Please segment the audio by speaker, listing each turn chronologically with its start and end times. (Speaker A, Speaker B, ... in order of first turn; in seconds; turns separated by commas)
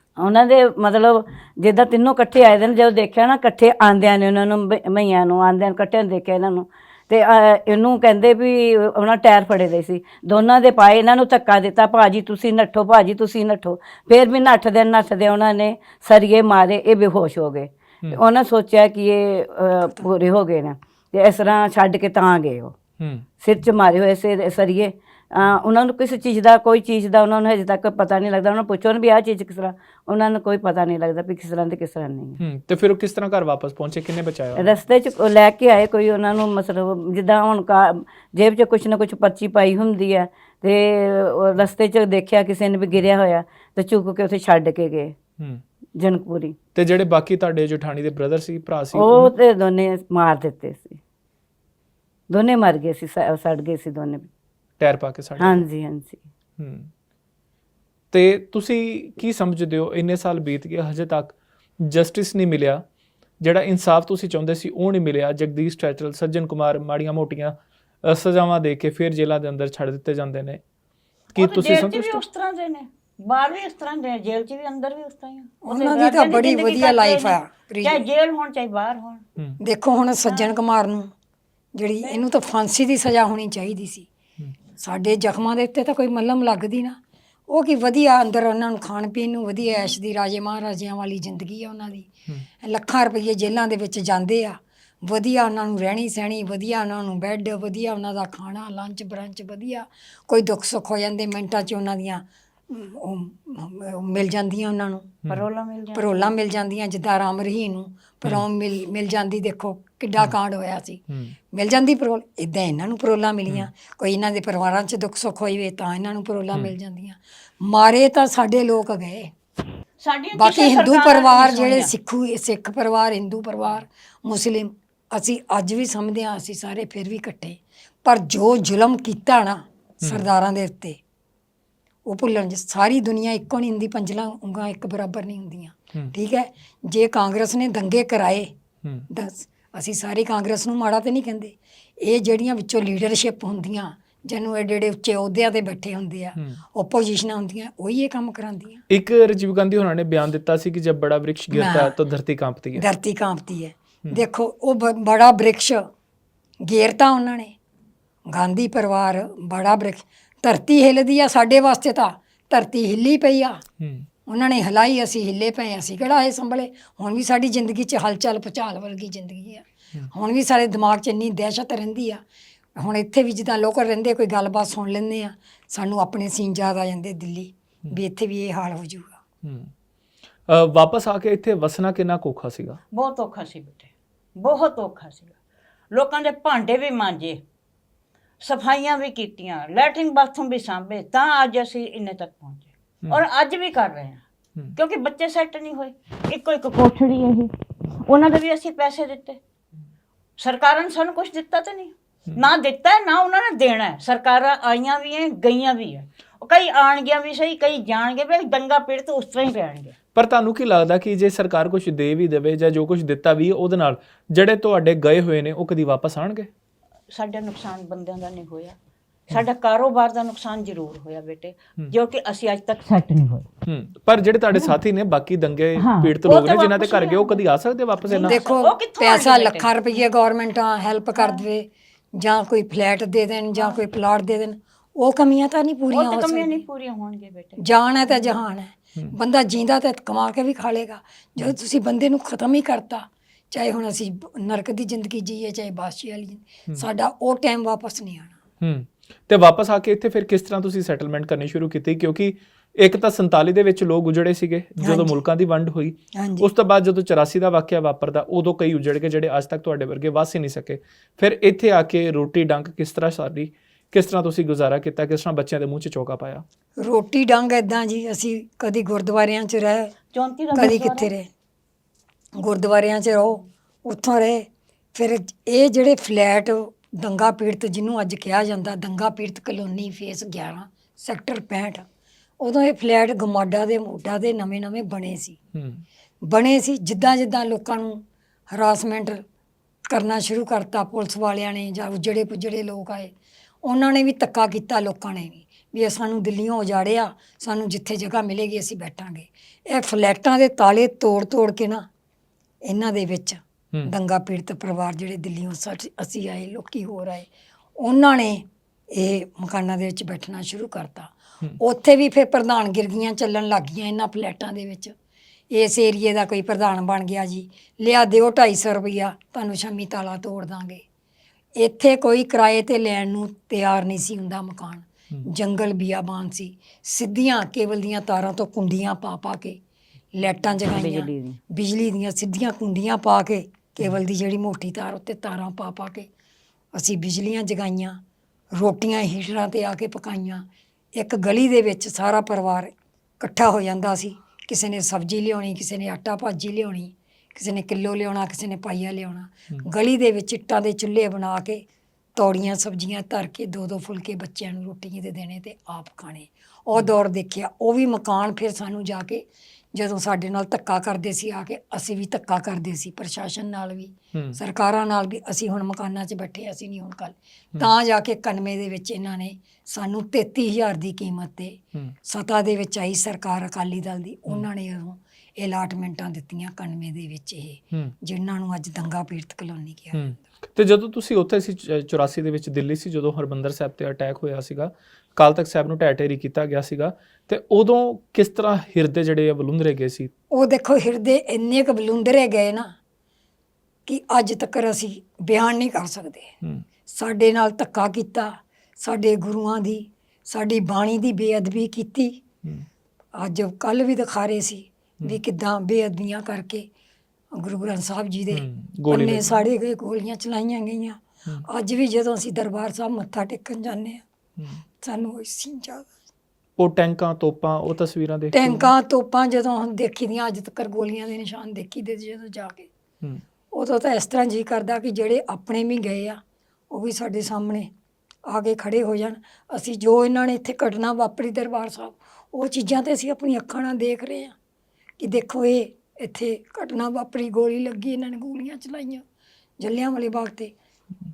Speaker A: 0.2-22.7, Speaker B: 23.0-23.2, Speaker A: 23.4-32.4, Speaker B: 32.4-34.8, Speaker A: 34.5-45.1, Speaker A: 45.9-46.5, Speaker B: 46.7-49.3, Speaker A: 48.9-51.0, Speaker A: 52.3-54.3, Speaker B: 54.8-55.6, Speaker A: 55.4-56.2, Speaker B: 56.6-56.9, Speaker B: 58.1-62.8, Speaker B: 63.4-70.6, Speaker B: 71.3-72.2, Speaker C: 71.3-79.2, Speaker D: 75.6-78.0, Speaker D: 79.6-81.1, Speaker D: 81.7-84.1, Speaker D: 84.8-105.2, Speaker C: 105.3-106.3, Speaker D: 105.9-119.3, Speaker B: 111.1-111.3, Speaker C: 120.0-121.9, Speaker D: 120.3-131.0, Speaker B: 130.0-130.3, Speaker D: 132.1-138.5, Speaker D: 139.1-148.8, Speaker B: 148.9-152.8, Speaker D: 151.5-151.9, Speaker D: 152.7-155.9, Speaker D: 156.6-157.5, Speaker D: 158.3-163.6, Speaker B: 163.8-164.1, Speaker D: 164.2-172.2, Speaker D: 172.8-179.2, Speaker B: 179.4-179.7, Speaker B: 180.4-182.8, Speaker C: 182.9-185.3, Speaker C: 185.9-187.4, Speaker C: 188.4-194.2, Speaker C: 194.8-199.4, Speaker C: 200.4-209.9, Speaker B: 210.1-216.5, Speaker C: 217.1-218.8, Speaker C: 219.3-223.5, Speaker B: 223.7-228.4, Speaker C: 225.8-227.4, Speaker C: 228.1-230.1, Speaker D: 228.2-236.6, Speaker C: 231.1-231.4, Speaker C: 235.9-238.4, Speaker D: 237.6-248.4, Speaker B: 248.6-266.4, Speaker D: 254.8-255.2, Speaker D: 256.1-256.5, Speaker D: 266.8-269.9, Speaker C: 270.1-271.1, Speaker D: 270.5-271.3, Speaker D: 272.3-281.8, Speaker D: 282.4-285.4, Speaker B: 285.5-285.8, Speaker D: 286.2-289.2, Speaker D: 289.9-301.9, Speaker D: 302.6-314.9, Speaker D: 315.5-320.8, Speaker D: 321.6-329.6, Speaker D: 330.1-336.1, Speaker A: 330.7-331.4, Speaker D: 336.7-338.0, Speaker D: 338.5-351.6, Speaker D: 352.1-380.1, Speaker B: 379.9-390.1, Speaker D: 390.3-392.7, Speaker D: 393.9-396.3, Speaker D: 396.9-402.2, Speaker D: 403.1-406.7, Speaker D: 407.3-414.0, Speaker B: 408.3-409.4, Speaker D: 414.8-415.9, Speaker B: 416.6-418.7, Speaker D: 418.3-422.7, Speaker D: 423.5-427.7, Speaker D: 428.2-434.3, Speaker D: 435.0-439.0, Speaker D: 439.6-440.5